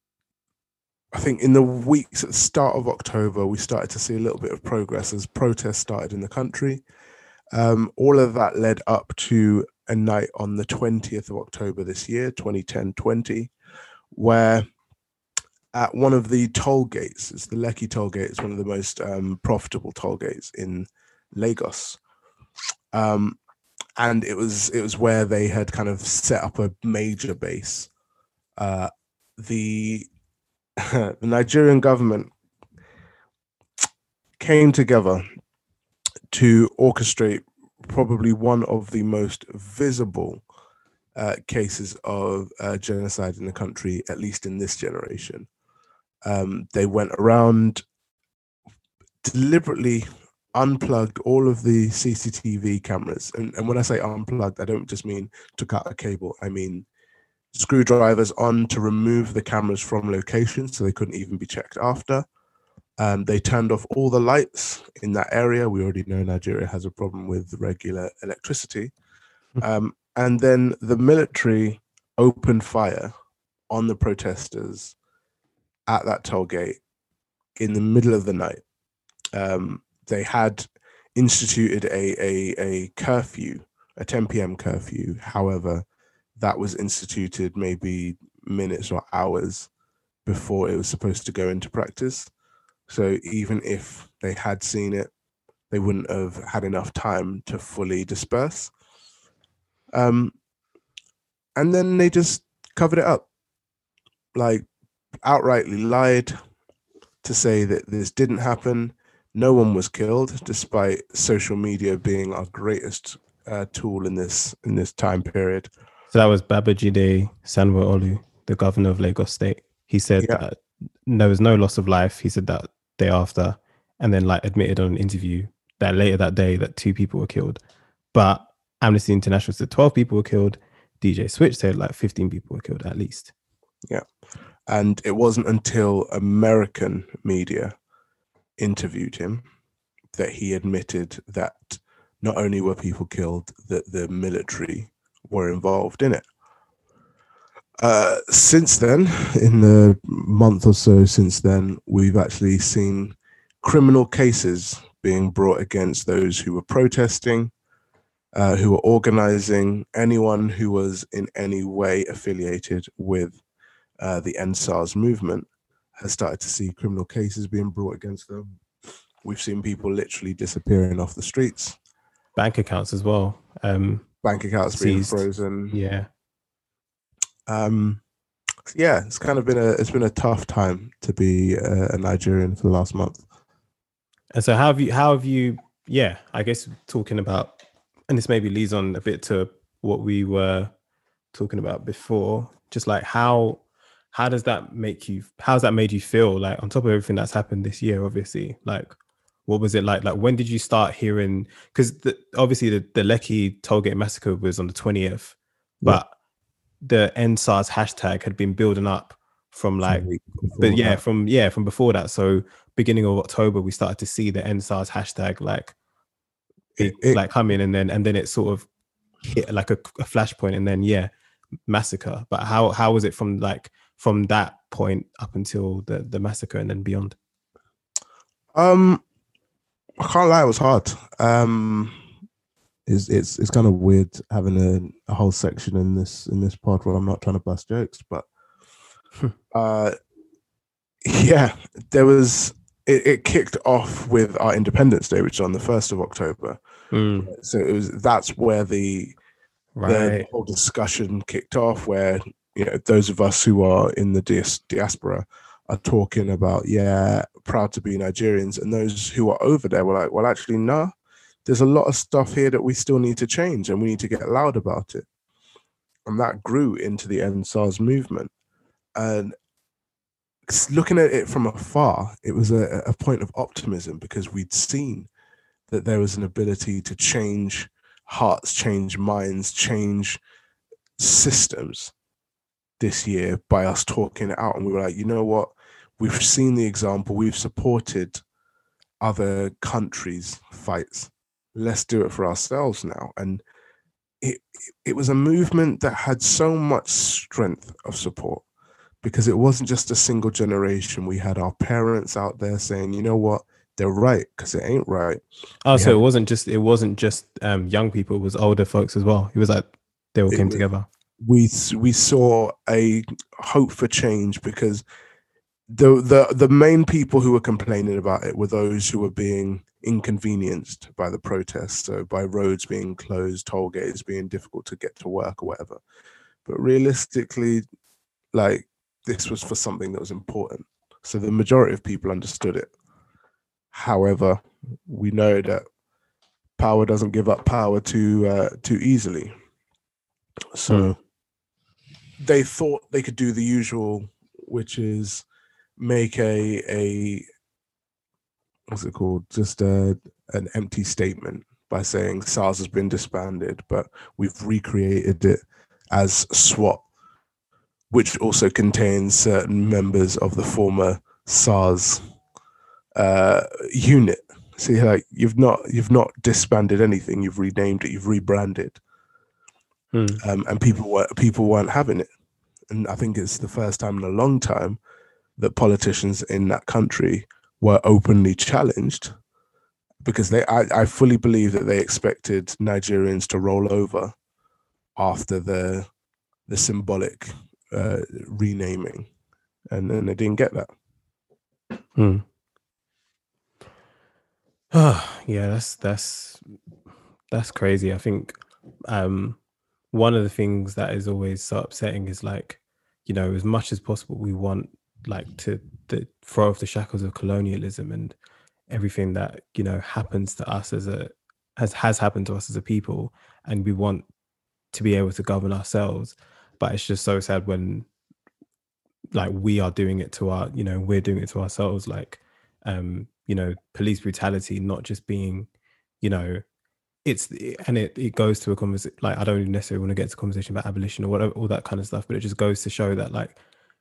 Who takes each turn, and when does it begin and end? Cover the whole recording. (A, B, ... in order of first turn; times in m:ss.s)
0:01.1-0:06.8 A
0:07.5-0:13.5 A
0:14.1-0:14.6 A
0:15.7-0:22.0 A
0:22.9-0:23.4 A
0:24.0-0:27.9 A
0:28.6-0:30.1 A
0:30.8-0:32.3 A
0:34.4-0:35.2 A
0:36.3-0:40.4 A
0:41.2-0:45.5 A
0:46.2-0:47.8 A
0:49.2-0:56.9 A
0:57.5-1:02.2 A
1:03.0-1:08.9 A
1:09.6-1:13.1 A
1:13.7-1:14.9 A
1:15.9-1:16.8 A
1:17.6-1:18.6 A
1:19.3-1:25.8 A
1:26.4-1:29.7 A
1:30.2-1:32.3 A
1:32.9-1:35.1 A
1:35.7-1:38.7 A
1:39.9-1:40.3 A
1:41.6-1:43.2 A
1:44.3-1:44.7 A
1:45.2-1:46.4 A
1:47.2-1:55.7 A
1:56.1-2:07.6 B
2:08.1-2:13.3 B
2:14.7-2:17.7 A
2:18.6-2:19.4 A
2:20.1-2:26.2 A
2:27.8-2:37.5 A
2:38.3-2:43.4 A
2:44.0-2:45.5 A
2:46.0-2:48.6 A
2:49.2-2:51.7 A
2:52.4-2:54.1 B
2:54.2-2:55.8 A
2:54.7-2:56.1 B
2:57.5-2:58.0 A
2:58.7-3:03.2 A
3:04.3-3:07.5 B
3:08.1-3:10.7 B
3:11.3-3:13.6 B
3:14.1-3:18.9 B
3:19.4-3:26.1 B
3:26.8-3:30.0 B
3:29.8-3:31.0 A
3:30.6-3:35.7 B
3:36.8-3:37.2 A
3:36.8-3:38.7 B
3:39.2-3:41.1 B
3:41.7-3:47.2 B
3:48.5-3:49.0 A
3:50.0-3:52.0 A
3:52.9-3:58.2 A
3:59.5-4:00.0 A
4:01.0-4:06.6 A
4:06.9-4:07.3 B
4:07.2-4:09.1 A
4:09.8-4:10.3 B
4:09.8-4:20.9 A
4:21.4-4:25.0 A
4:26.0-4:28.3 A
4:29.0-4:29.3 A
4:30.5-4:35.1 A
4:35.7-4:40.2 A
4:41.0-4:41.9 A
4:42.8-4:48.2 A
4:49.0-4:53.4 A
4:54.2-4:58.4 A
4:59.0-5:05.2 A
5:05.6-5:10.9 B
5:10.3-5:10.6 A
5:11.2-5:14.8 A
5:15.7-5:25.8 A
5:26.4-5:27.6 A
5:28.3-5:32.7 A
5:33.7-5:35.6 A
5:36.6-5:39.3 A
5:40.5-5:41.0 A
5:40.7-5:40.9 B
5:42.2-5:45.2 A
5:45.8-5:47.2 A
5:48.7-5:55.4 A
5:55.9-5:56.8 A
5:57.9-6:02.0 A
6:02.9-6:08.8 A
6:09.9-6:10.2 B
6:10.2-6:12.1 A
6:12.7-6:14.8 A
6:15.4-6:19.1 A
6:20.0-6:24.1 A
6:25.0-6:25.9 A
6:26.5-6:29.1 A
6:29.7-6:30.7 A
6:32.0-6:32.2 B
6:34.7-6:36.4 B
6:37.3-6:38.3 B
6:38.9-6:39.4 B
6:39.9-6:48.1 B
6:48.7-6:54.0 B
6:54.7-6:57.9 B
6:59.1-7:05.5 B
7:06.0-7:06.4 B
7:07.0-7:13.4 B